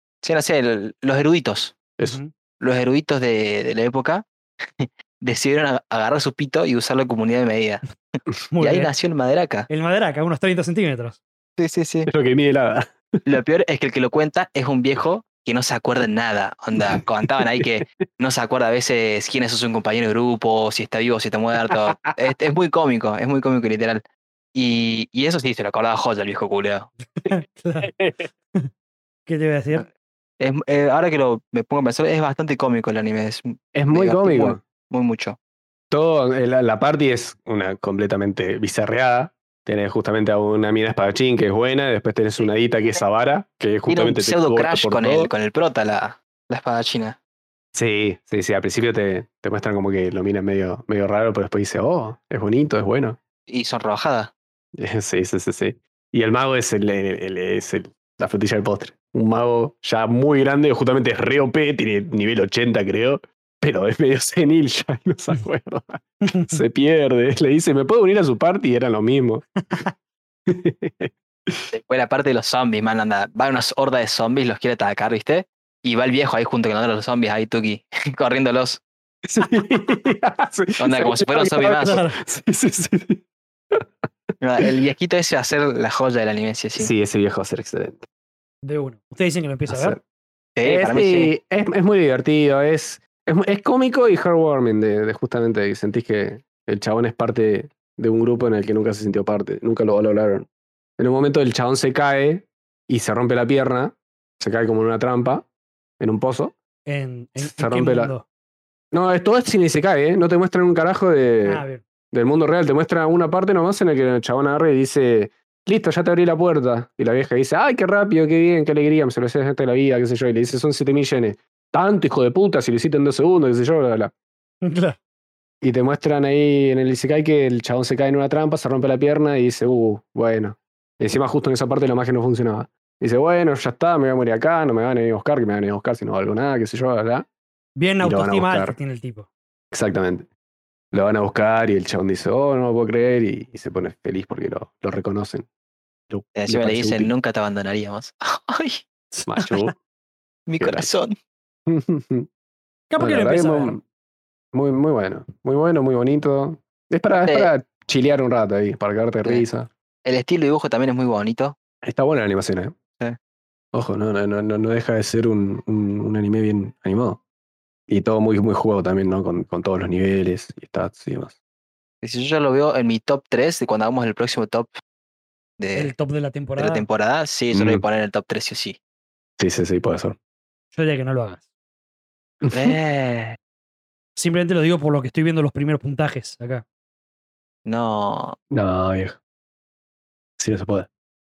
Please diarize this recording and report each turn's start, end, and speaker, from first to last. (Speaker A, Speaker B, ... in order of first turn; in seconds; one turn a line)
Speaker A: 0.2-1.8
Speaker B: 2.0-2.3
Speaker A: 2.6-9.7
Speaker B: 8.5-8.9
Speaker B: 9.7-11.2
Speaker A: 11.6-12.1
Speaker C: 12.1-13.3
Speaker A: 13.2-24.0
Speaker C: 16.8-17.8
Speaker C: 21.7-22.1
Speaker A: 24.5-26.9
Speaker B: 27.2-27.9
Speaker C: 27.8-28.3
Speaker B: 29.2-29.9
Speaker A: 30.4-35.4
Speaker C: 33.7-34.6
Speaker C: 35.9-45.3
Speaker A: 43.9-47.2
Speaker C: 47.7-53.2
Speaker A: 53.5-54.3
Speaker C: 54.7-69.5
Speaker B: 66.2-66.6
Speaker B: 69.6-69.9
Speaker C: 70.5-71.7
Speaker A: 71.7-78.8
Speaker C: 79.2-83.8
Speaker A: 80.8-82.0
Speaker B: 81.8-82.2
Speaker A: 84.4-86.9
Speaker C: 86.8-88.0
Speaker B: 88.6-90.0
Speaker C: 89.7-90.0
Speaker A: 90.6-91.3
Speaker C: 90.6-100.5
Speaker C: 101.0-105.5
Speaker C: 106.0-106.5
Speaker B: 106.8-108.2
Speaker C: 107.4-108.1
Speaker C: 108.9-124.1
Speaker B: 111.4-111.8
Speaker B: 124.6-125.0
Speaker C: 125.6-137.2
Speaker B: 137.8-139.3
Speaker C: 138.0-138.8
Speaker C: 139.7-140.3
Speaker C: 140.9-145.5
Speaker C: 146.1-147.1
Speaker A: 146.3-148.8
Speaker B: 149.1-149.7
Speaker C: 149.3-149.7
Speaker A: 150.5-151.1
Speaker C: 150.6-150.9
Speaker C: 151.7-152.3
Speaker B: 152.9-153.8
Speaker C: 153.0-153.8
Speaker C: 154.5-159.7
Speaker A: 157.2-157.5
Speaker A: 160.0-161.6
Speaker C: 161.8-162.8
Speaker C: 163.7-167.2
Speaker C: 167.9-171.3
Speaker A: 172.0-174.8
Speaker A: 175.6-175.9
Speaker B: 175.7-176.8
Speaker A: 176.6-178.8
Speaker C: 177.5-177.8
Speaker C: 179.4-180.2
Speaker B: 180.7-181.4
Speaker C: 182.4-182.7
Speaker A: 182.5-183.4
Speaker B: 184.2-186.6
Speaker A: 187.6-188.3
Speaker C: 188.5-189.2
Speaker C: 190.4-190.9